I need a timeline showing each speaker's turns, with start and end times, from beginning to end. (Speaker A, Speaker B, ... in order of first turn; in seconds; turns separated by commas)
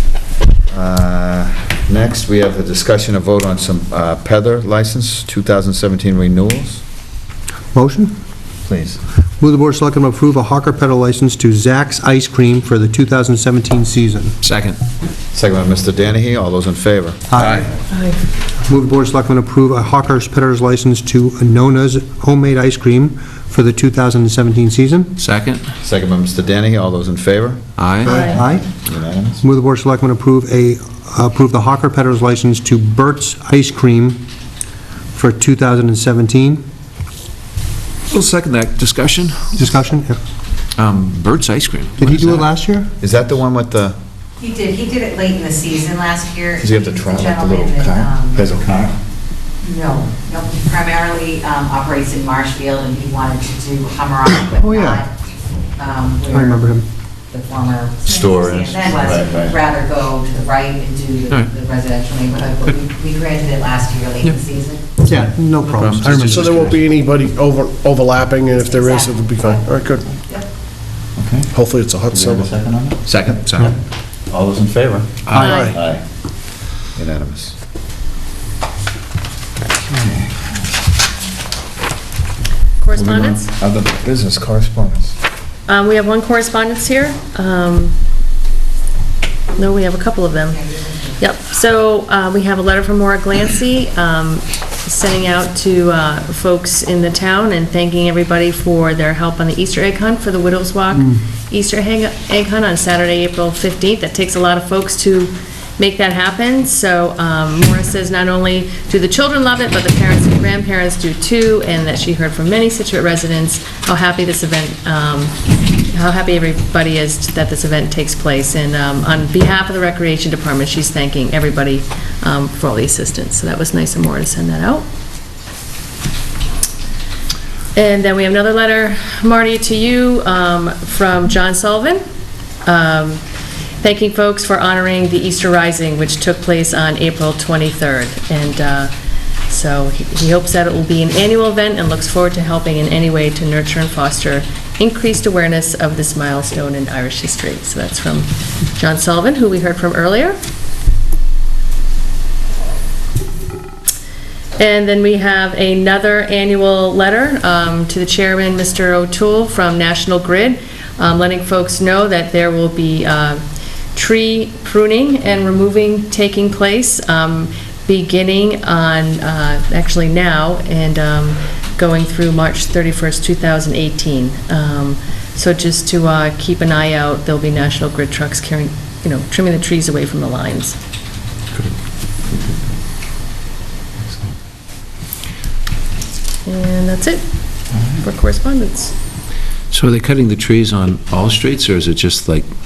Speaker A: 0.7-6.8, Speaker B: 7.7-8.1, Speaker A: 8.7-9.0, Speaker B: 9.4-14.4, Speaker C: 14.4-14.8, Speaker A: 15.3-17.3, Speaker B: 17.3-17.7, Speaker C: 17.4-17.7, Speaker D: 17.9-18.2, Speaker B: 18.7-25.1, Speaker C: 25.2-25.6, Speaker A: 25.8-29.4, Speaker C: 27.8-28.2, Speaker B: 28.0-28.7, Speaker D: 28.1-28.4, Speaker B: 29.4-34.2, Speaker B: 35.1-36.6, Speaker C: 38.1-39.6, Speaker B: 39.5-40.2, Speaker C: 40.8-42.5, Speaker B: 42.0-42.9, Speaker A: 43.0-44.0, Speaker E: 44.4-48.5, Speaker A: 46.6-49.0, Speaker E: 49.6-55.1, Speaker B: 54.6-55.0, Speaker E: 55.8-56.6, Speaker B: 56.3-56.9, Speaker E: 57.3-64.8, Speaker A: 58.0-59.7, Speaker B: 65.0-66.5, Speaker C: 65.5-66.9, Speaker F: 66.2-70.1, Speaker E: 68.6-69.7, Speaker A: 71.2-71.5, Speaker F: 71.5-72.5, Speaker A: 72.1-73.8, Speaker C: 73.1-73.7, Speaker A: 74.3-76.0, Speaker C: 75.3-75.6, Speaker B: 75.3-75.8, Speaker D: 75.4-75.8, Speaker A: 77.0-77.5, Speaker A: 79.9-80.6, Speaker D: 82.8-83.5, Speaker A: 83.0-85.2, Speaker D: 85.7-88.0, Speaker D: 89.6-90.7, Speaker D: 91.2-115.3, Speaker D: 115.9-124.9, Speaker D: 127.8-132.0, Speaker D: 132.7-133.2, Speaker D: 133.8-138.9, Speaker D: 139.5-150.4, Speaker D: 154.6-163.4, Speaker D: 163.9-180.8, Speaker A: 184.0-184.3, Speaker D: 186.5-187.2, Speaker A: 187.7-188.0, Speaker D: 187.9-188.9, Speaker C: 189.7-192.5